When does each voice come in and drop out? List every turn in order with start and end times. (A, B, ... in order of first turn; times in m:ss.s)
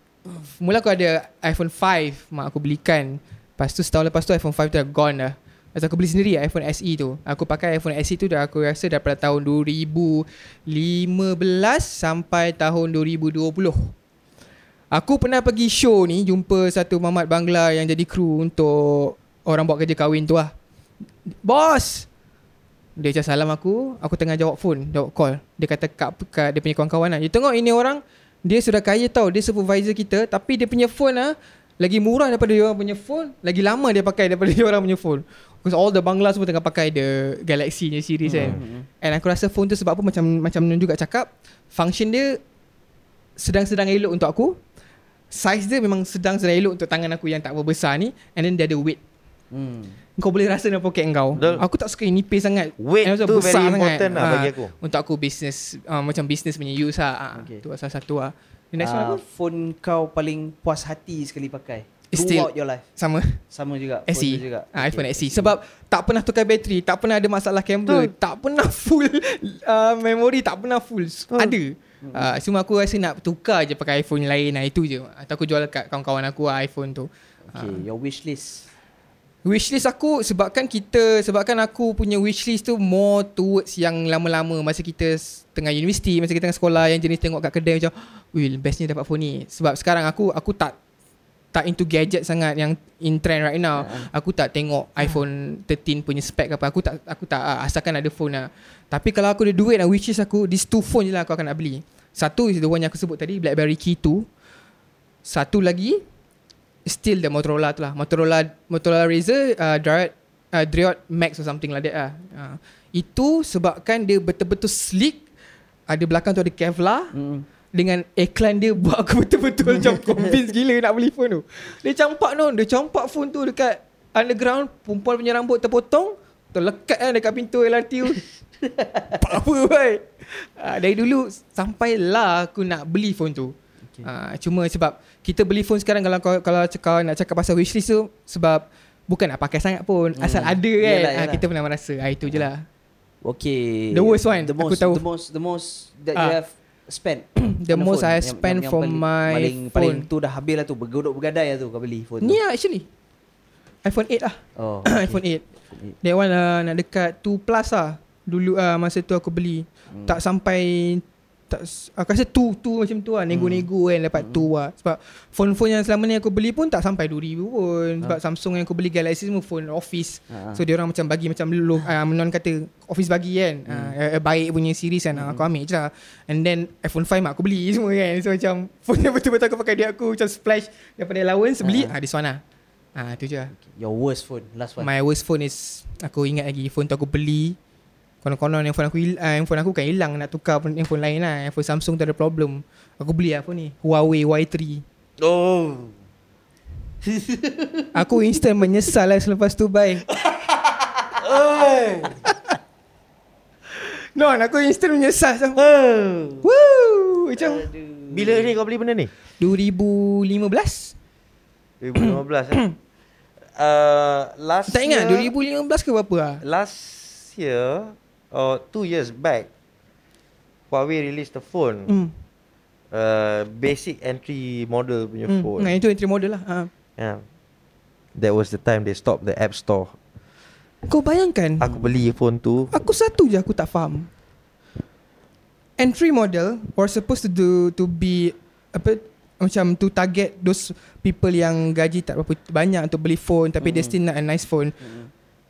0:00.4-0:13.9 A
0:14.9-0:20.5 A
0:21.4-0:22.1 A
0:23.0-0:42.4 A
0:38.2-0:38.9 B
0:43.4-0:44.6 A
0:45.3-0:49.0 A
0:49.5-0:50.0 B
0:50.2-0:59.2 A
0:51.3-0:51.6 B
0:51.4-0:51.6 C
0:52.8-0:54.7 C
0:57.3-0:57.6 B
0:58.8-1:02.9 B
1:02.1-1:03.4 A
1:03.5-1:05.6 B
1:04.1-1:17.8 A
1:07.8-1:08.1 C
1:11.3-1:11.6 C
1:12.0-1:12.3 B
1:17.5-1:18.7 B
1:19.4-1:30.7 A
1:31.5-1:44.3 A
1:33.8-1:34.1 B
1:45.2-1:46.0 A
1:46.8-1:55.2 A
1:55.9-1:57.1 A
1:57.1-1:57.5 B
1:57.7-2:08.2 A
2:08.6-2:09.2 B
2:09.1-2:13.5 A
2:14.0-2:22.6 A
2:20.2-2:21.4 B
2:23.2-2:32.4 B
2:23.9-2:25.0 A
2:27.4-2:30.1 A
2:32.2-2:32.9 A
2:33.8-2:35.4 A
2:34.6-2:36.0 B
2:36.0-3:02.4 A
2:39.9-2:40.2 B
2:43.3-2:44.5 B
2:50.3-2:50.6 B
2:53.7-2:54.0 B
2:55.1-2:55.5 B
3:01.6-3:01.9 B
3:03.0-3:03.5 A
3:03.5-3:04.9 B
3:04.8-3:07.6 A
3:08.2-3:14.8 A
3:15.2-3:16.0 C
3:17.0-3:17.7 C
3:17.9-3:20.0 A
3:21.2-3:22.3 C
3:23.8-3:25.6 A
3:25.6-3:26.4 C
3:26.4-3:27.7 A
3:27.4-3:28.5 B
3:28.1-3:29.1 C
3:29.4-3:30.9 A
3:31.8-3:32.6 C
3:32.0-3:32.7 A
3:33.5-3:35.3 C
3:34.7-3:36.4 A
3:36.4-3:39.5 C
3:40.7-3:41.9 C
3:41.9-3:42.1 A
3:42.9-3:45.7 C
3:45.3-3:46.7 A
3:47.0-3:47.2 C
3:48.2-3:49.9 C
3:50.9-3:51.7 A
3:51.6-3:52.7 C
3:52.7-3:54.1 A
3:55.8-4:04.8 A
4:03.6-4:03.9 B
4:04.8-4:05.1 B